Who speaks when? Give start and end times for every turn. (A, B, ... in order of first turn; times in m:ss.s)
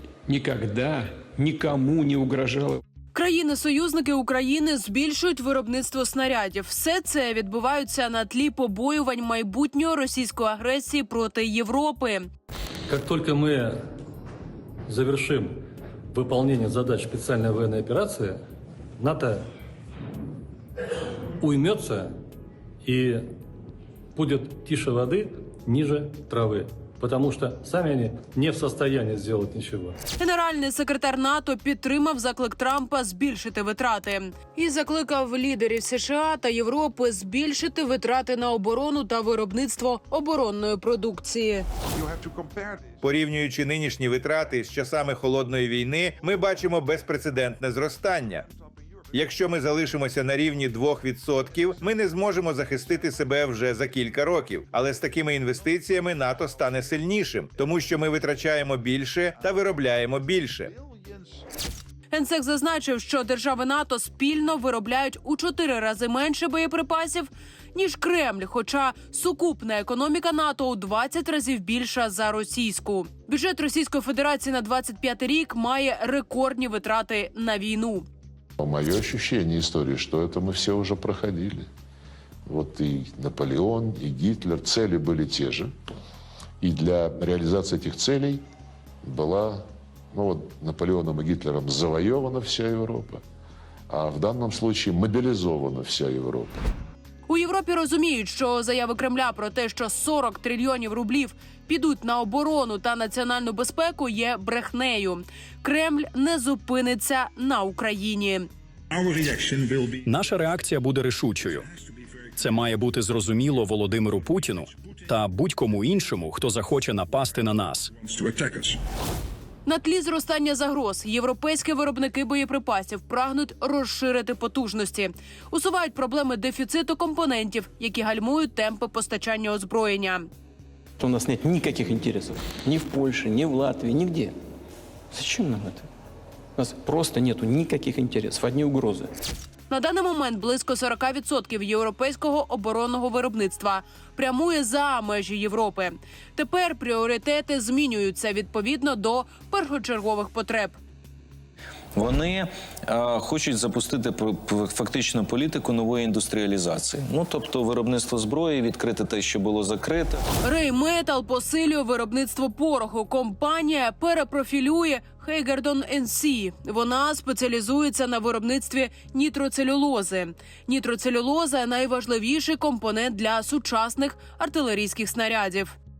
0:00.3-0:02.8 A
0:03.1-0:12.3 B
0:12.9-0:13.8 C
0:14.9-0:15.6 C
0:16.1-0:18.4 C
0:19.0-0:19.4 C
0:21.4-0:22.1 C
0:22.8-0:23.3 C
0:24.2-0:30.0 C
0:30.2-0:41.7 B
0:43.0-0:48.5 D
0:49.1-1:00.7 D
1:02.1-1:18.1 B
1:18.6-1:21.7 E
1:22.5-1:25.7 E
1:26.6-1:28.4 E
1:29.0-1:33.2 E
1:33.9-1:36.6 E
1:37.3-1:48.5 B
1:49.3-1:49.5 D
1:50.0-1:51.7 F
1:52.4-1:57.9 F
1:59.7-2:10.3 B
2:11.0-2:14.4 G
2:15.1-2:15.9 G
2:16.6-2:19.1 G
2:19.7-2:30.8 B
2:32.0-2:40.2 H
2:40.4-2:55.8 B